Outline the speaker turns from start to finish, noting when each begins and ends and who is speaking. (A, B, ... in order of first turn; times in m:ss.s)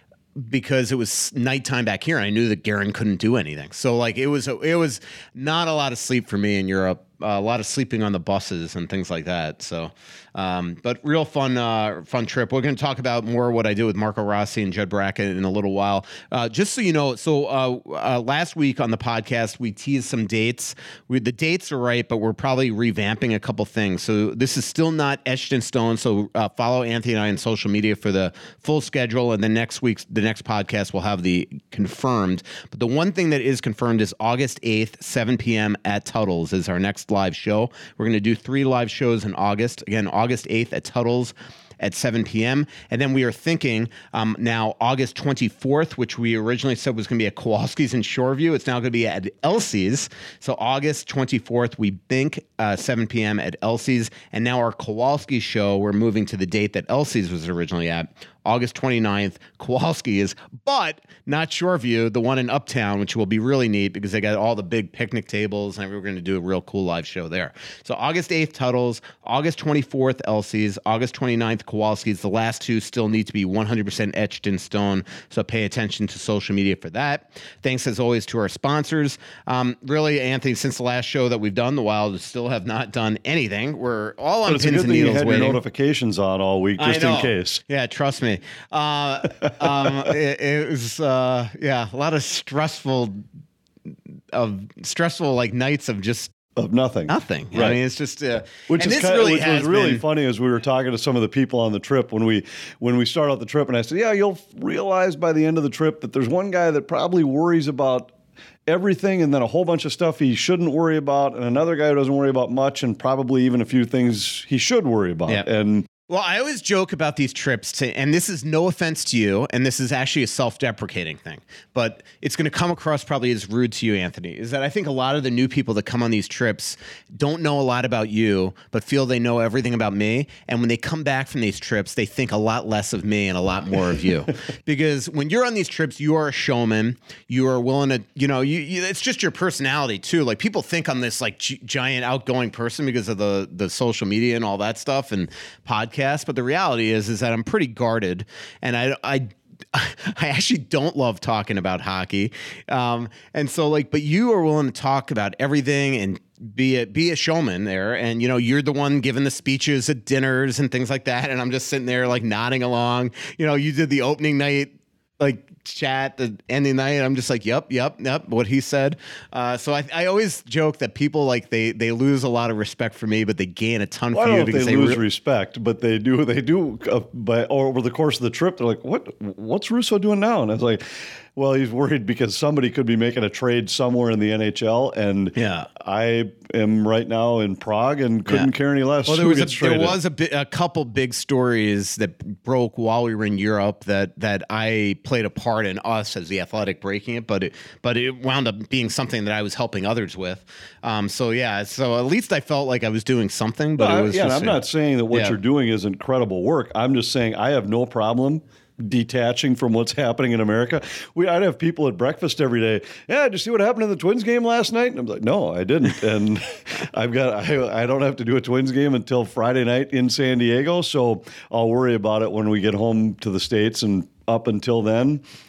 0:00.4-1:25.6 A
1:24.5-1:27.6 B
1:26.8-1:33.2 A
1:34.3-1:36.3 A
1:36.6-1:37.8 B
1:37.1-1:40.0 A
1:38.7-1:48.1 B
1:48.6-1:55.8 B
1:56.1-2:55.0 A
2:54.1-3:10.0 B
3:05.3-3:05.7 A
3:09.0-3:25.3 A
3:23.8-3:45.2 B